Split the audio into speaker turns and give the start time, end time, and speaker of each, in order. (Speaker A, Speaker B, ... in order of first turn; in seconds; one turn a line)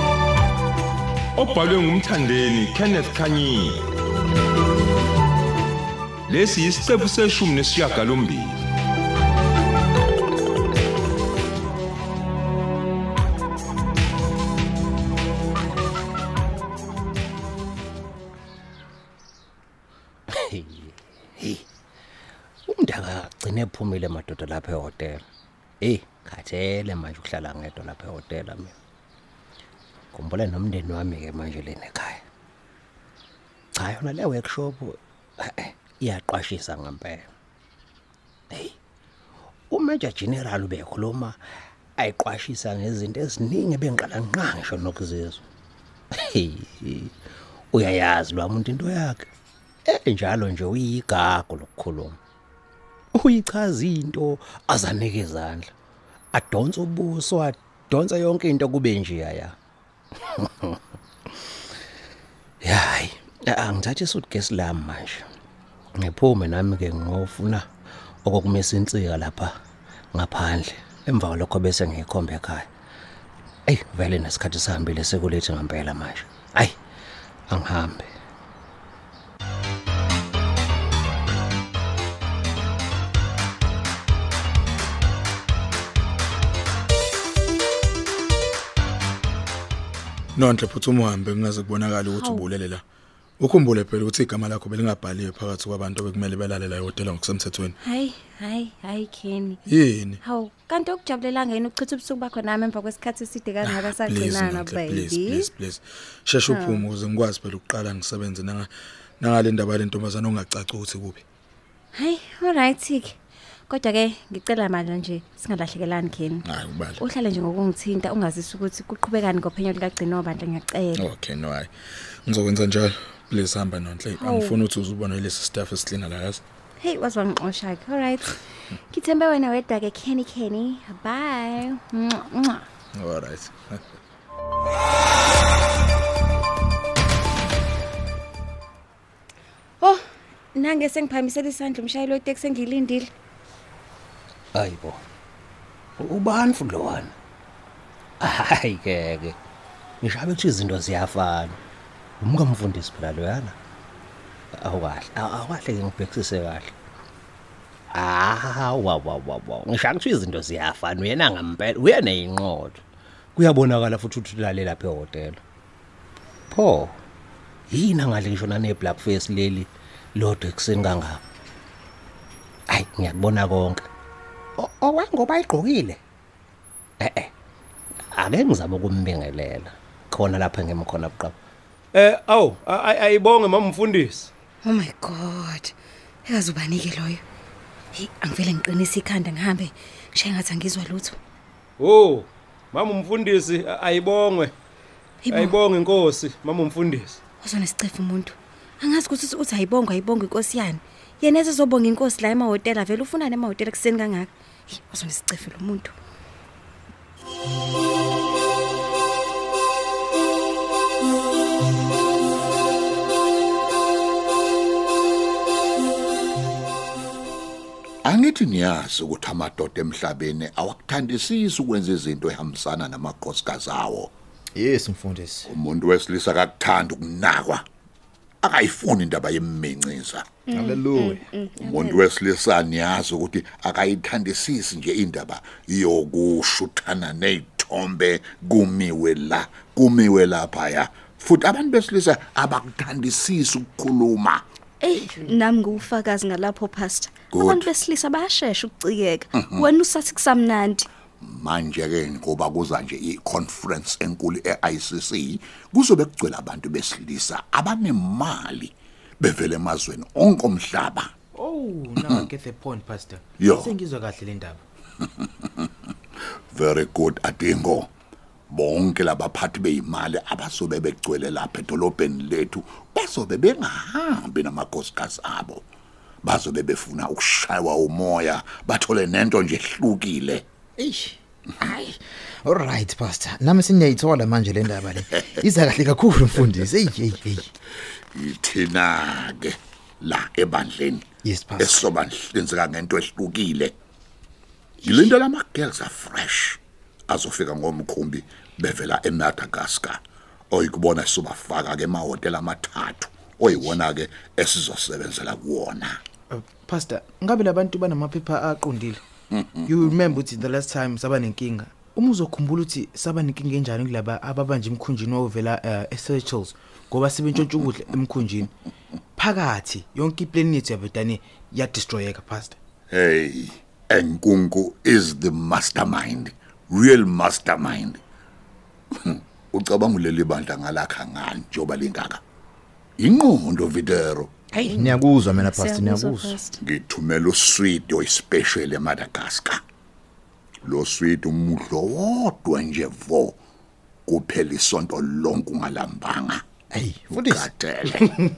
Speaker A: 1.4-3.8
Speaker A: 6.3-8.5
Speaker B: 20.3-21.6
Speaker B: 22.7-25.2
Speaker B: 25.8-28.7
Speaker B: 30.1-32.2
Speaker B: 33.8-37.3
Speaker B: 39.7-41.4
Speaker B: 42.0-45.4
Speaker B: 46.1-47.1
Speaker B: 47.7-49.3
Speaker B: 49.9-52.2
Speaker B: 53.1-55.7
Speaker B: 56.3-59.5
Speaker B: 60.4-60.8
Speaker B: 62.6-65.2
Speaker B: 66.0-67.6
Speaker B: 68.2-69.5
Speaker B: 70.1-72.7
Speaker B: 73.7-76.7
Speaker B: 77.5-78.1
Speaker C: 90.3-92.8
Speaker D: 92.1-92.5
Speaker C: 93.4-97.7
Speaker D: 97.8-99.6
Speaker C: 99.7-100.2
Speaker D: 100.2-105.5
Speaker C: 103.6-108.7
Speaker D: 106.5-106.8
Speaker C: 109.2-111.2
Speaker D: 111.9-113.2
Speaker D: 113.7-116.4
Speaker C: 116.4-117.0
Speaker D: 117.0-121.1
Speaker C: 120.9-121.7
Speaker C: 122.2-126.4
Speaker D: 124.2-124.6
Speaker D: 126.8-128.3
Speaker D: 128.9-132.6
Speaker C: 132.9-133.8
Speaker D: 140.5-143.1
Speaker B: 144.5-145.0
Speaker B: 146.0-147.1
Speaker B: 148.2-149.3
Speaker B: 150.0-151.6
Speaker B: 152.2-153.5
Speaker B: 154.6-156.7
Speaker B: 157.9-162.8
Speaker B: 163.3-165.4
Speaker B: 166.5-166.9
Speaker B: 167.7-171.2
Speaker B: 172.7-173.8
Speaker B: 174.6-176.0
Speaker B: 177.0-177.3
Speaker B: 178.1-181.3
Speaker E: 181.9-184.3
Speaker D: 184.6-185.7
Speaker D: 186.2-187.2
Speaker D: 187.9-191.2
Speaker E: 191.8-194.5
Speaker D: 195.2-195.6
Speaker E: 195.2-197.2
Speaker D: 197.4-205.9
Speaker F: 218.0-224.1
Speaker G: 224.6-225.5
Speaker F: 225.5-227.6
Speaker F: 228.4-230.2
Speaker H: 230.5-232.0
Speaker I: 230.8-231.2
Speaker F: 231.6-244.4
Speaker H: 244.8-250.9
Speaker F: 247.3-247.7
Speaker F: 249.3-249.7
Speaker F: 251.2-261.1
Speaker G: 261.3-264.6
Speaker F: 263.4-263.7
Speaker F: 266.5-267.9
Speaker F: 268.5-275.6
Speaker F: 276.2-280.4
Speaker I: 280.8-287.5
Speaker F: 288.1-291.1
Speaker I: 291.2-291.9
Speaker F: 291.6-293.7
Speaker F: 294.8-300.0
Speaker F: 300.5-306.0
Speaker G: 306.3-309.0
Speaker G: 309.6-318.5
Speaker G: 319.1-322.6
Speaker F: 322.9-328.0
Speaker F: 329.0-332.2
Speaker F: 333.0-334.3
Speaker I: 334.6-336.4
Speaker H: 335.6-336.2
Speaker F: 336.6-339.6
Speaker F: 340.6-343.4
Speaker F: 344.1-346.4
Speaker I: 346.7-347.5
Speaker F: 347.1-348.1